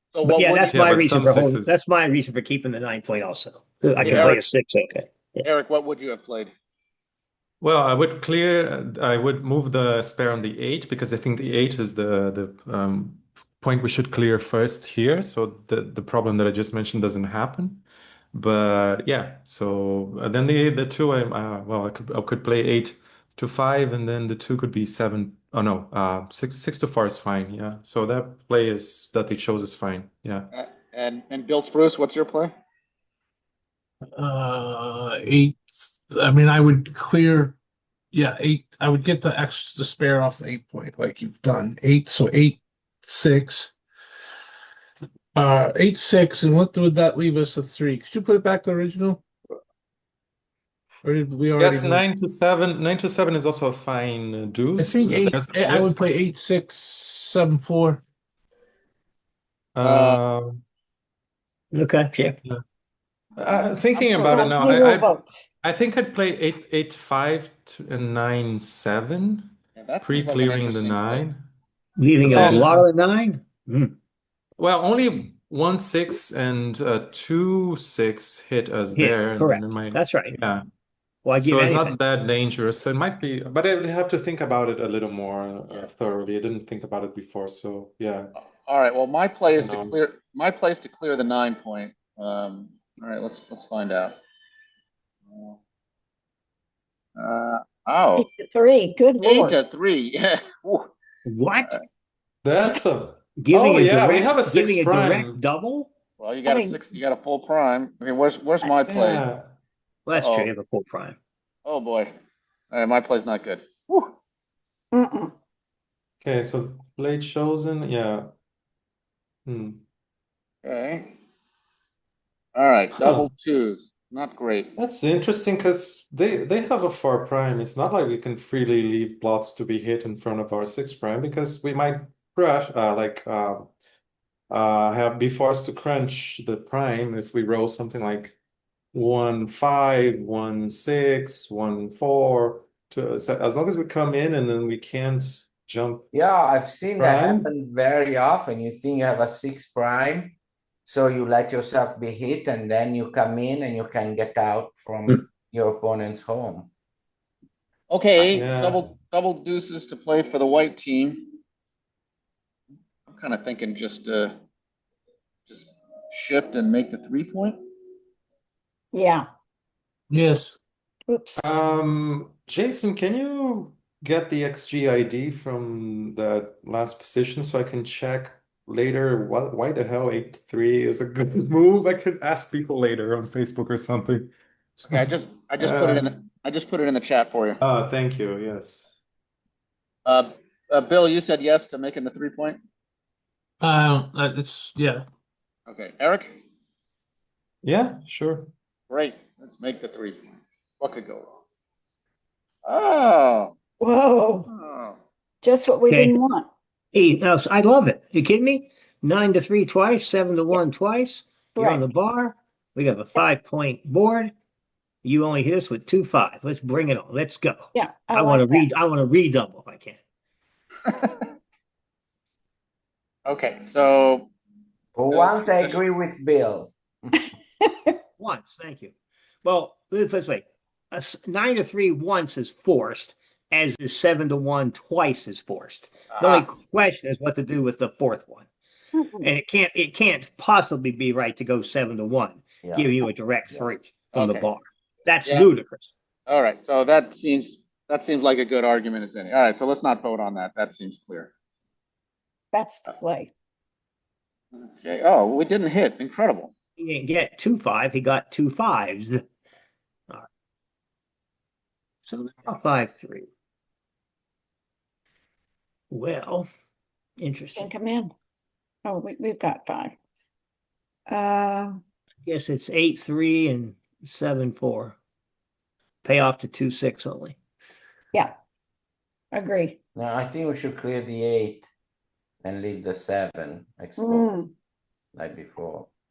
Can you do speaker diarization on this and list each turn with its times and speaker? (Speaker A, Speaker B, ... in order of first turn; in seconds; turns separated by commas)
Speaker A: 0.1-1.0, Speaker B: 0.2-5.5, Speaker C: 0.6-1.8, Speaker C: 4.0-4.3, Speaker A: 4.0-4.4, Speaker A: 5.4-6.5, Speaker C: 7.6-30.5, Speaker A: 30.5-32.5, Speaker D: 34.1-37.6, Speaker D: 38.1-43.7, Speaker D: 45.3-49.2, Speaker D: 51.0-52.0, Speaker C: 51.6-56.0, Speaker D: 54.8-58.0, Speaker C: 59.7-60.6, Speaker A: 59.8-60.2, Speaker B: 61.7-62.4, Speaker C: 63.4-71.5, Speaker A: 63.9-64.5, Speaker E: 64.2-65.4, Speaker A: 69.8-71.2, Speaker B: 72.0-73.9, Speaker C: 72.2-72.8, Speaker C: 74.6-80.6, Speaker B: 78.9-80.4, Speaker B: 81.2-82.0, Speaker C: 81.3-88.3, Speaker A: 88.6-94.2, Speaker C: 89.5-90.0, Speaker A: 95.3-95.6, Speaker A: 97.2-98.3, Speaker E: 98.2-99.5, Speaker A: 99.2-100.9, Speaker B: 101.2-101.8, Speaker C: 102.4-105.4, Speaker B: 103.4-105.9, Speaker A: 106.2-109.2, Speaker E: 106.5-106.8, Speaker C: 108.9-109.5, Speaker B: 110.0-111.2, Speaker A: 110.1-110.5, Speaker A: 111.7-112.1, Speaker A: 112.7-114.1, Speaker E: 114.9-115.3, Speaker C: 116.2-118.3, Speaker C: 119.5-119.8, Speaker A: 120.6-121.1, Speaker A: 122.5-124.7, Speaker C: 123.0-123.3, Speaker C: 124.8-133.7, Speaker C: 134.5-138.4, Speaker C: 138.9-146.1, Speaker F: 146.1-156.7, Speaker C: 147.0-147.5, Speaker A: 157.9-161.3, Speaker C: 158.2-158.9, Speaker A: 163.1-164.3, Speaker A: 165.5-167.6, Speaker E: 168.9-169.2, Speaker D: 170.1-170.6, Speaker E: 171.1-171.6, Speaker C: 171.3-185.0, Speaker A: 184.9-187.6, Speaker C: 185.6-186.1, Speaker C: 187.6-188.9, Speaker A: 190.1-192.6, Speaker D: 193.6-195.1, Speaker A: 195.7-196.4, Speaker C: 197.6-198.5, Speaker A: 198.9-201.3, Speaker A: 202.6-203.5, Speaker E: 203.8-204.5, Speaker A: 204.5-205.0, Speaker E: 205.4-206.5, Speaker B: 205.9-206.2, Speaker B: 206.9-214.3, Speaker E: 211.6-211.9, Speaker B: 215.0-220.0, Speaker E: 217.7-218.7, Speaker A: 223.2-224.3, Speaker F: 224.9-227.2, Speaker A: 225.1-225.8, Speaker E: 227.1-227.9, Speaker B: 228.2-228.9, Speaker B: 229.4-238.4, Speaker A: 236.1-236.4, Speaker E: 239.0-239.3, Speaker B: 239.2-245.9, Speaker F: 242.6-242.9, Speaker A: 244.1-244.5, Speaker A: 246.3-251.3, Speaker E: 252.5-253.3, Speaker A: 254.5-256.5, Speaker B: 256.8-259.2, Speaker B: 262.1-263.3, Speaker B: 265.9-266.5, Speaker B: 267.2-267.7, Speaker E: 267.5-268.1, Speaker E: 268.8-270.0, Speaker E: 271.1-271.8, Speaker B: 272.2-274.9, Speaker B: 276.0-277.4, Speaker E: 279.3-279.8, Speaker F: 279.9-281.7, Speaker F: 282.4-284.4, Speaker E: 284.0-284.5, Speaker F: 285.1-285.9